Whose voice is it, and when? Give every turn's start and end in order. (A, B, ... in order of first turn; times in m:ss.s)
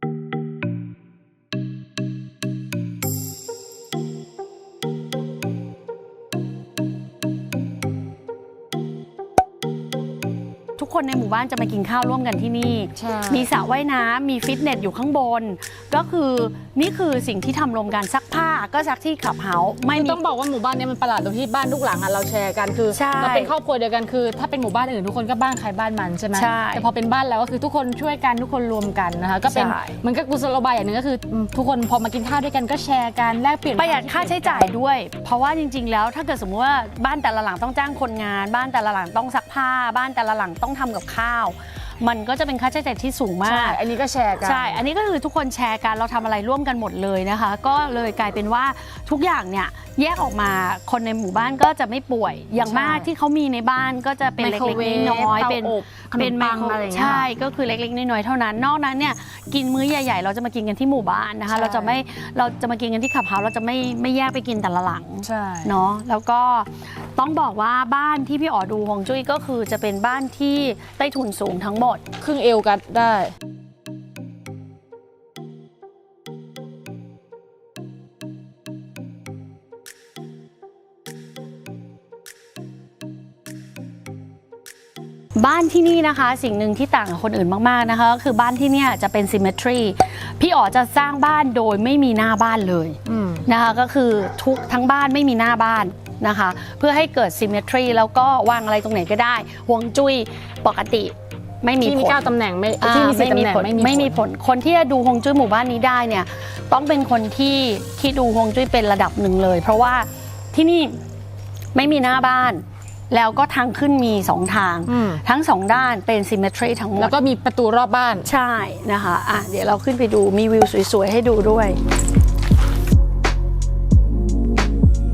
0:10.8-0:20.2 A
0:13.0-0:13.5 B
0:19.9-0:34.7 B
0:22.9-0:23.5 A
0:26.3-0:26.9 A
0:29.5-0:29.9 A
0:33.8-0:43.8 A
0:43.4-0:44.8 B
0:44.4-1:12.0 A
0:52.6-0:53.1 B
0:54.4-0:57.3 B
1:01.5-1:01.9 B
1:05.2-1:05.8 B
1:12.2-1:13.3 B
1:25.4-1:50.9 A
1:33.0-1:33.5 B
1:41.8-1:44.2 B
1:51.7-1:57.1 A
1:54.9-1:55.2 B
1:57.0-1:58.3 B
1:58.2-2:01.8 A